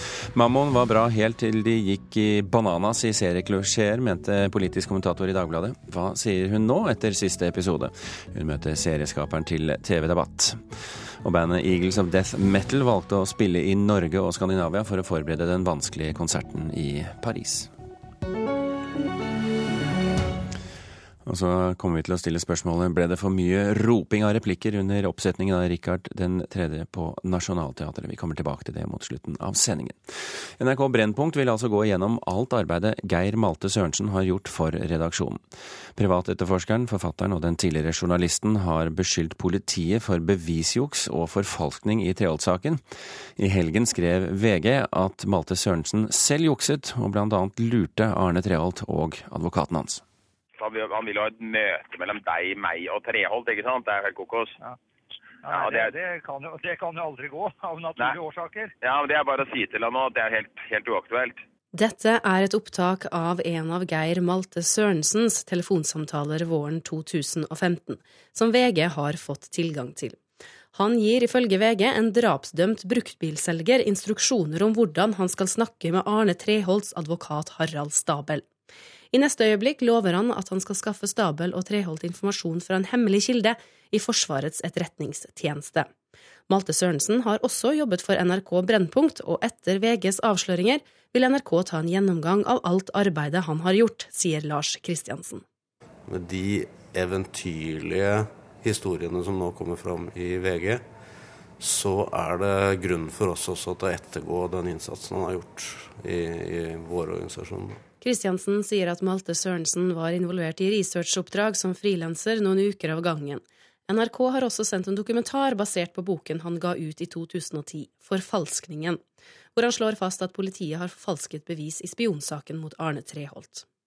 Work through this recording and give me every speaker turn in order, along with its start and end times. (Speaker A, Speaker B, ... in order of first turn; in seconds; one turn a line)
Speaker A: 0.3-10.6
Speaker A: 11.2-17.7
Speaker A: 21.2-30.0
Speaker A: 30.6-35.4
Speaker A: 36.0-42.8
Speaker A: 43.4-50.0
Speaker B: 50.6-54.6
Speaker C: 55.4-58.7
Speaker B: 55.5-55.9
Speaker B: 58.8-61.4
Speaker D: 61.7-70.2
Speaker D: 70.7-78.5
Speaker D: 79.1-85.9
Speaker D: 86.5-95.4
Speaker E: 96.1-100.8
Speaker E: 101.6-107.8
Speaker D: 108.0-119.0
Speaker D: 119.5-123.6